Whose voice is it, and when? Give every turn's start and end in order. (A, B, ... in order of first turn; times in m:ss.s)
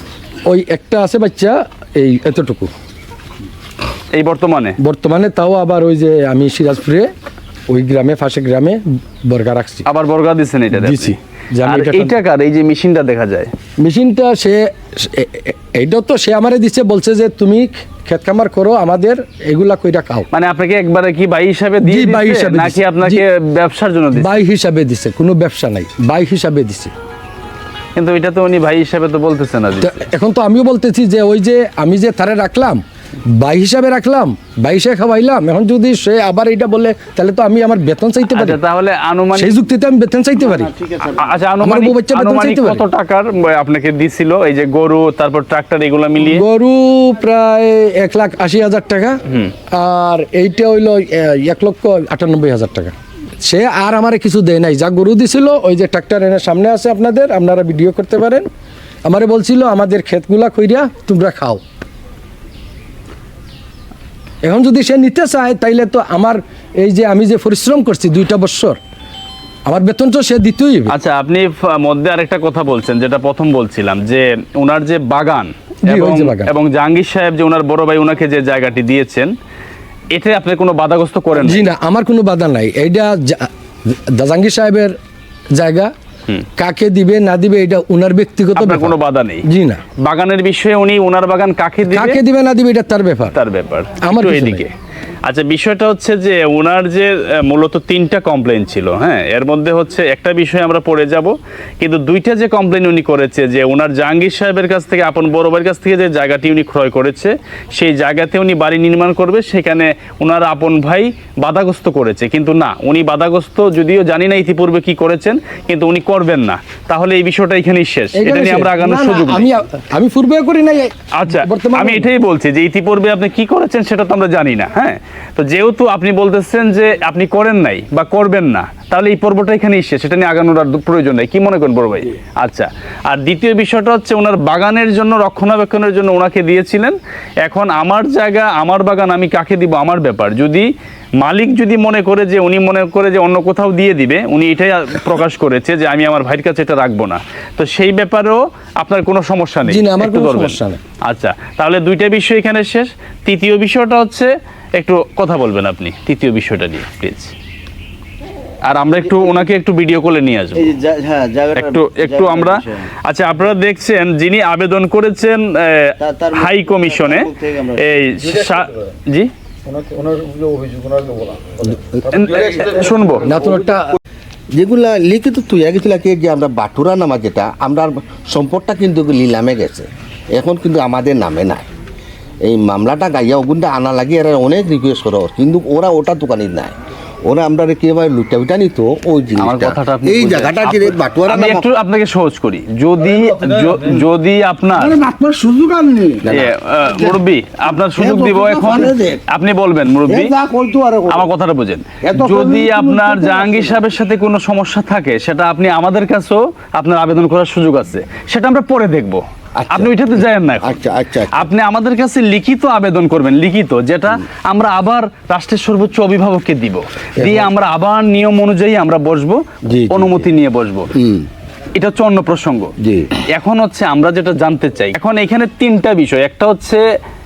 0:00.5-0:02.7 A
0:04.2-0:04.8 B
0:04.8-0:07.1 A
0:07.7-0:09.9 A
0:09.8-0:13.5 B
0:10.7-0:12.2 A
0:13.8-0:20.3 A
0:20.3-0:24.4 B
0:21.8-0:23.2 A
0:24.1-0:26.9 A
0:28.0-0:30.0 B
0:29.8-0:32.8 A
0:33.4-0:38.6 A
0:38.3-0:39.6 B
0:39.4-0:40.7 A
0:40.4-0:41.3 C
0:41.1-0:46.4 B
0:41.6-0:42.8 A
0:46.2-0:49.2 A
0:49.7-0:58.5 A
0:59.0-1:01.6 A
1:04.4-1:08.8 A
1:09.7-1:10.9 A
1:10.9-1:19.3 B
1:15.9-1:16.5 A
1:20.1-1:21.7 B
1:21.4-1:24.9 A
1:25.6-1:25.9 A
1:26.6-1:29.8 A
1:28.5-1:29.4 B
1:30.0-1:32.2 B
1:31.8-1:33.4 A
1:33.3-1:34.7 B
1:34.0-1:34.6 A
1:35.3-1:59.5 B
1:58.1-2:02.1 A
2:01.2-2:20.7 B
2:21.2-2:37.3 B
2:29.6-2:30.8 A
2:38.7-2:40.7 B
2:39.0-2:39.4 C
2:40.5-2:42.9 C
2:41.6-2:49.3 B
2:46.0-2:47.9 C
2:49.9-2:51.7 C
2:49.9-2:50.5 D
2:52.0-2:53.4 B
2:53.2-2:54.0 A
2:54.5-3:01.7 E
3:02.4-3:11.7 E
3:09.4-3:15.0 B
3:13.6-3:13.8 D
3:14.7-3:16.3 D
3:16.2-3:16.5 E
3:16.3-3:20.4 B
3:16.9-3:17.2 D
3:18.0-3:19.0 D
3:18.5-3:19.2 E
3:20.1-3:21.2 D
3:20.1-3:20.8 E
3:21.1-3:30.7 B
3:22.0-3:23.8 D
3:29.6-3:29.9 E
3:30.6-3:31.5 E
3:31.3-3:40.9 B
3:37.2-3:37.5 E
3:39.7-3:40.3 E
3:41.0-3:41.3 E
3:41.8-3:42.7 B
3:42.8-3:43.1 E
3:43.3-3:46.8 B